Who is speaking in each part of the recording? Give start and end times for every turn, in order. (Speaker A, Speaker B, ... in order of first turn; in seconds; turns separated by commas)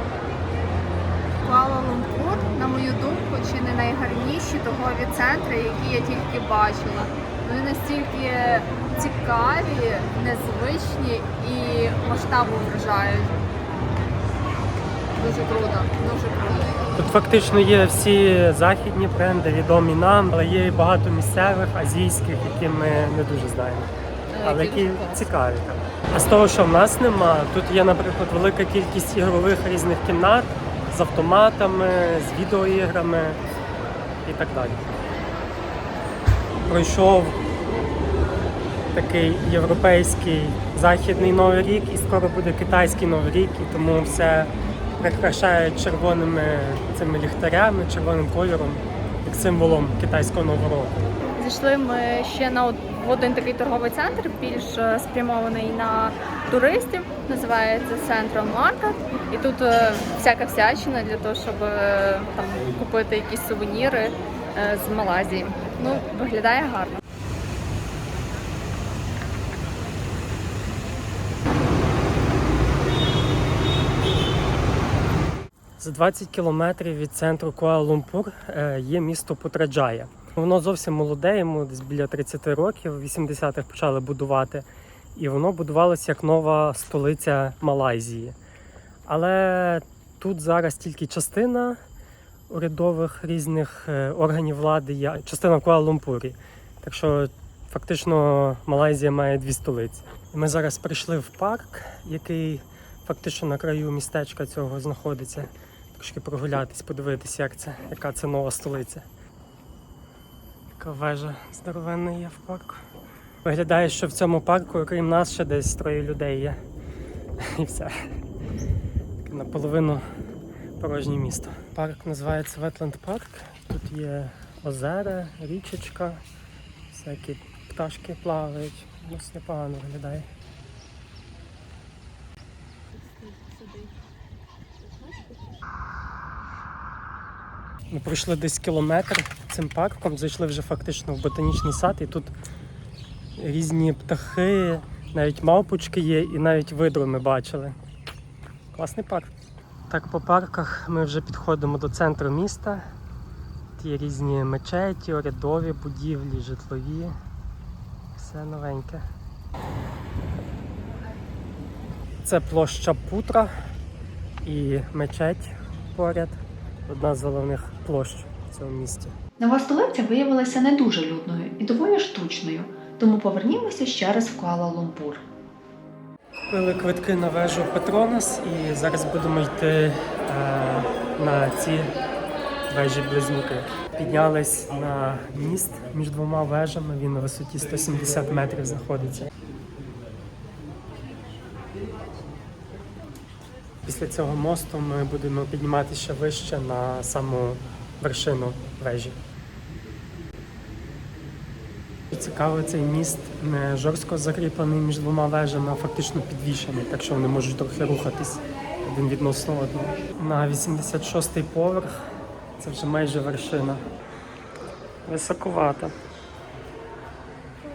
Speaker A: 1.4-13.4, Speaker A: 15.1-16.8, Speaker B: 17.0-23.9, Speaker A: 24.3-25.3, Speaker B: 24.4-33.4, Speaker B: 34.2-35.0, Speaker B: 36.6-37.4, Speaker B: 38.9-51.0, Speaker A: 51.4-67.0, Speaker B: 75.8-88.3, Speaker B: 89.1-91.8, Speaker B: 92.5-109.0, Speaker B: 110.8-112.8, Speaker B: 113.4-116.6, Speaker B: 117.4-118.0, Speaker B: 119.2-120.0, Speaker B: 120.8-126.2, Speaker B: 126.9-130.3, Speaker A: 132.9-133.9, Speaker B: 137.9-142.3, Speaker B: 143.4-147.7, Speaker B: 148.7-149.3, Speaker B: 149.9-152.9, Speaker B: 153.8-157.2, Speaker B: 158.1-159.0, Speaker B: 162.2-163.5, Speaker B: 164.4-169.2, Speaker C: 169.4-175.2, Speaker B: 176.5-181.9, Speaker B: 182.7-189.3, Speaker B: 193.8-199.2, Speaker B: 202.1-212.0, Speaker B: 212.6-213.8, Speaker B: 215.1-215.9